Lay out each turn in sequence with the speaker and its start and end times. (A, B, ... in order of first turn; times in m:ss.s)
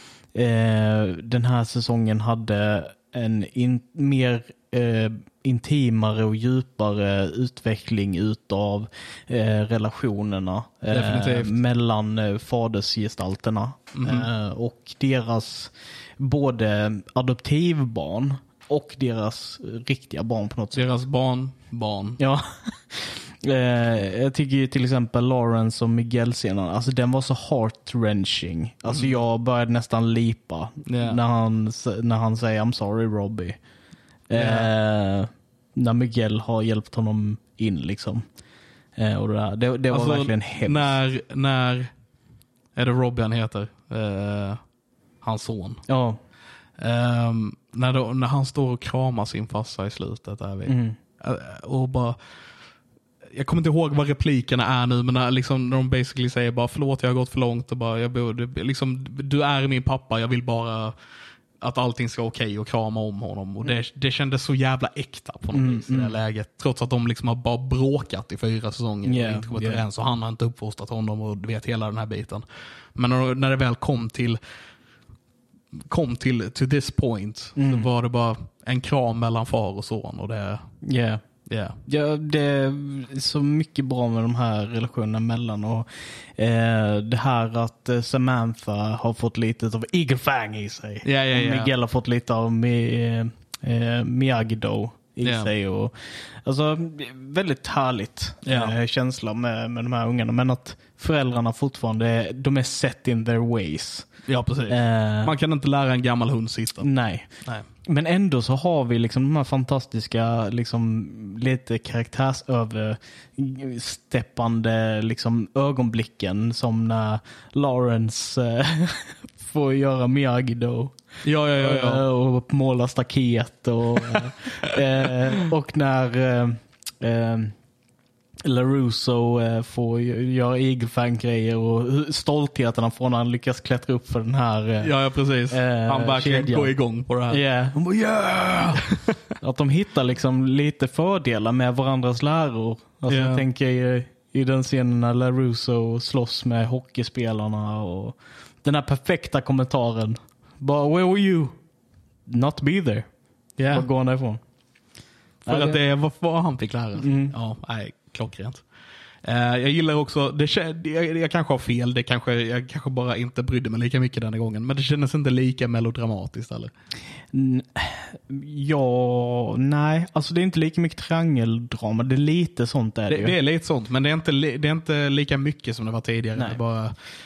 0:00.3-0:20.8 A
0:10.9-0:11.6 B
0:14.0-0:14.3 B
0:20.7-0:22.2 B
0:22.2-0:33.6 A
0:28.9-0:29.2 B
0:30.8-0:31.2 B
0:34.3-0:38.2 A
0:34.3-0:34.7 B
0:39.0-0:41.0 A
0:39.9-0:41.9 B
0:42.8-0:44.6 B
0:45.2-0:45.8 B
0:45.9-0:46.2 A
0:46.8-0:52.2 B
0:50.7-0:51.0 A
0:53.4-1:00.9 B
1:01.6-1:12.4 B
1:05.5-1:06.2 A
1:09.0-1:09.8 A
1:13.0-1:14.4 B
1:15.9-1:20.7 B
1:17.6-1:17.9 A
1:20.8-1:21.2 A
1:21.5-1:21.8 B
1:21.9-1:44.1 A
1:31.0-1:31.7 B
1:35.2-1:35.5 B
1:38.4-1:38.8 B
1:44.3-1:46.9 B
1:44.7-1:45.4 A
1:46.8-1:47.3 A
1:47.8-2:01.0 A
2:01.2-2:02.0 B
2:01.6-2:07.5 A
2:08.4-2:14.9 A
2:14.8-2:17.4 B
2:15.5-2:16.7 A
2:17.3-2:18.8 A
2:18.8-2:19.2 B
2:19.4-2:31.6 A
2:23.1-2:23.4 B
2:32.3-2:33.1 A
2:33.6-2:33.9 B
2:33.7-2:34.4 A
2:35.4-2:38.6 B
2:35.5-2:35.8 A
2:37.0-2:37.4 A
2:39.2-2:46.7 B
2:47.3-2:53.4 A
2:53.1-2:57.0 B